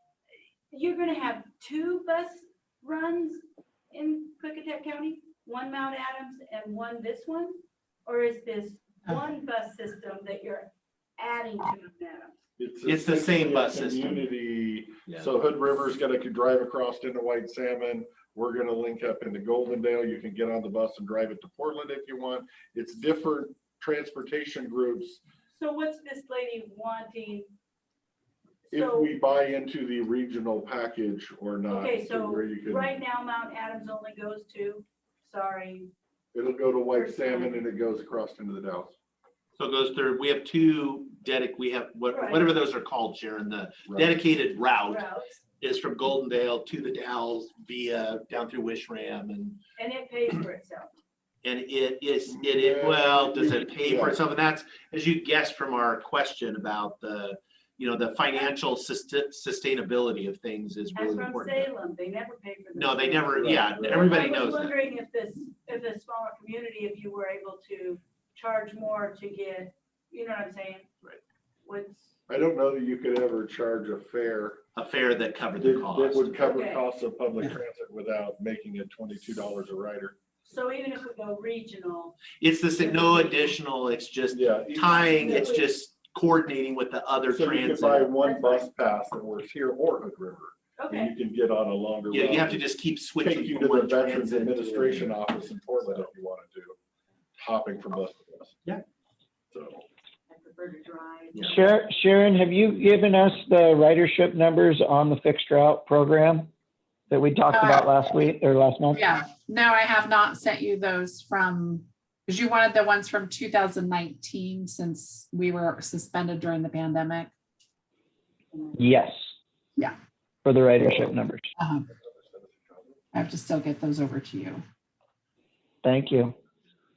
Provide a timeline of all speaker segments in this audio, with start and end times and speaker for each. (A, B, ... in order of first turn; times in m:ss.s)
0:00.7-0:12.4 A
0:12.6-0:25.2 B
0:12.8-0:14.3 C
0:25.5-0:27.5 A
0:28.7-0:29.1 A
0:28.7-0:33.0 B
0:31.7-0:35.9 A
0:36.3-0:38.9 B
0:36.9-0:37.6 A
0:39.6-0:45.1 C
0:42.1-0:42.5 A
0:43.9-0:44.2 B
0:44.8-0:45.4 A
0:45.6-0:49.6 C
0:49.8-0:50.9 A
0:51.4-1:01.7 C
0:52.3-0:54.2 B
1:00.9-1:10.8 A
1:02.7-1:04.8 C
1:03.4-1:04.1 B
1:11.6-1:12.1 A
1:12.3-1:14.6 B
1:14.7-1:16.4 C
1:15.6-1:20.2 B
1:16.4-1:16.8 A
1:20.4-1:22.2 A
1:22.4-1:28.1 C
1:22.8-1:23.5 A
1:24.3-1:25.5 B
1:24.9-1:25.7 A
1:27.3-1:36.8 B
1:28.2-1:28.7 A
1:30.8-1:31.2 A
1:32.1-1:35.2 C
1:37.4-1:38.6 B
1:39.5-1:39.8 B
1:40.3-1:41.5 A
1:41.4-1:46.5 D
1:47.1-1:49.1 D
1:47.5-1:48.0 E
1:48.9-1:57.3 E
1:58.8-1:59.2 D
2:00.4-2:01.5 D
2:01.6-2:01.8 E
2:02.0-2:03.0 B
2:03.1-2:04.6 E
2:05.8-2:06.3 D